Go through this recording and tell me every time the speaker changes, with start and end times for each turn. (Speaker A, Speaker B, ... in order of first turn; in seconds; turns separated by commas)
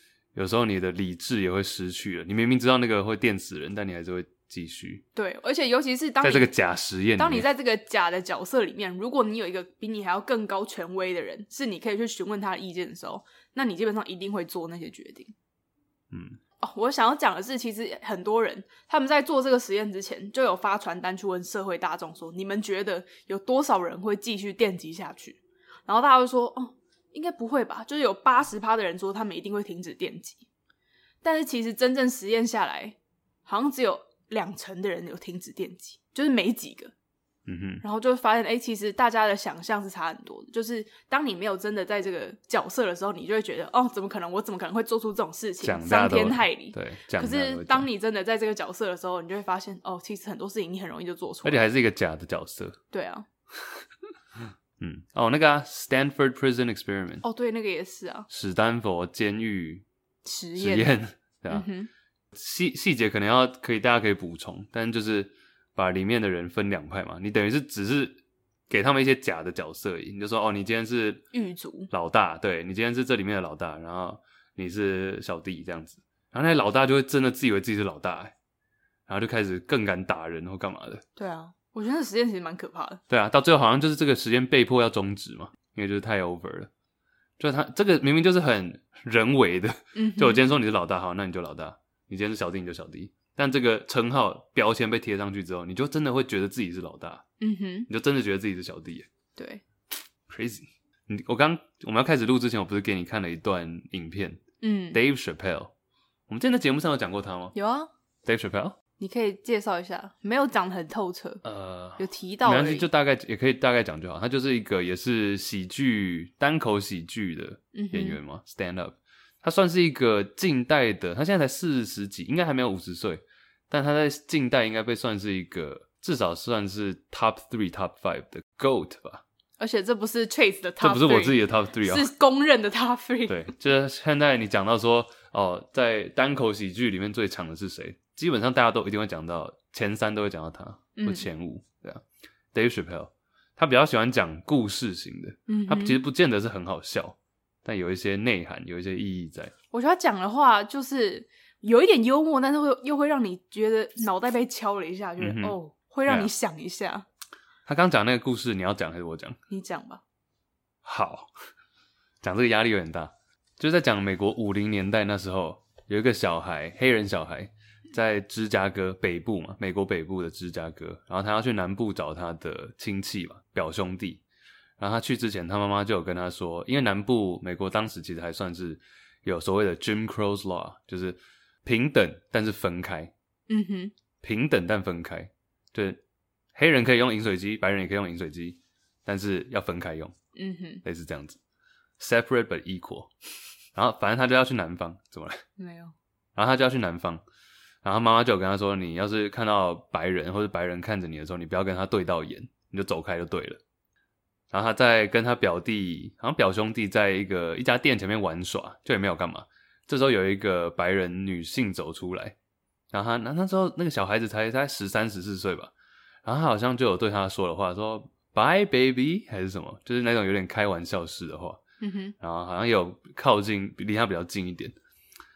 Speaker A: 0.3-5.0, Speaker B: 5.1-6.5, Speaker A: 6.2-7.5, Speaker B: 7.2-15.3, Speaker A: 16.1-16.4, Speaker B: 16.6-30.4, Speaker B: 31.2-36.9, Speaker A: 37.5-37.8, Speaker B: 37.8-51.6, Speaker A: 45.6-47.9, Speaker A: 51.4-52.8, Speaker B: 52.9-53.3, Speaker A: 54.8-57.2, Speaker B: 57.2-58.3, Speaker A: 58.3-59.8, Speaker B: 60.2-60.9, Speaker A: 60.5-61.7, Speaker B: 61.5-61.9, Speaker A: 62.3-71.2, Speaker B: 71.3-71.9, Speaker A: 71.9-78.3, Speaker A: 79.1-81.0, Speaker B: 81.2-83.0, Speaker A: 83.1-86.7, Speaker A: 87.4-97.2, Speaker B: 89.9-90.4, Speaker B: 97.4-97.9, Speaker A: 97.9-99.1, Speaker B: 99.4-99.6, Speaker A: 100.3-104.4, Speaker B: 104.6-105.0, Speaker A: 104.9-105.7, Speaker A: 106.3-107.5, Speaker B: 107.5-107.9, Speaker A: 108.2-108.8, Speaker B: 109.0-111.4, Speaker A: 111.4-129.2, Speaker B: 112.0-112.9, Speaker B: 117.7-118.2, Speaker B: 129.6-133.5, Speaker A: 130.8-132.1, Speaker A: 133.3-149.5, Speaker B: 141.0-141.3, Speaker B: 145.5-146.0, Speaker B: 149.7-157.1, Speaker A: 155.2-156.3, Speaker A: 157.7-159.4, Speaker B: 159.5-160.0, Speaker A: 160.8-161.3, Speaker A: 162.2-174.2, Speaker A: 174.8-183.1, Speaker B: 183.5-183.9, Speaker A: 184.2-186.0, Speaker A: 186.6-190.1, Speaker B: 190.3-190.8, Speaker A: 190.8-191.4, Speaker A: 192.0-193.1, Speaker A: 193.7-195.4, Speaker B: 195.6-195.9, Speaker A: 196.3-197.2, Speaker A: 197.8-203.6, Speaker A: 204.5-212.4, Speaker A: 212.9-215.7, Speaker A: 216.2-221.6, Speaker B: 221.8-222.1, Speaker A: 222.2-224.8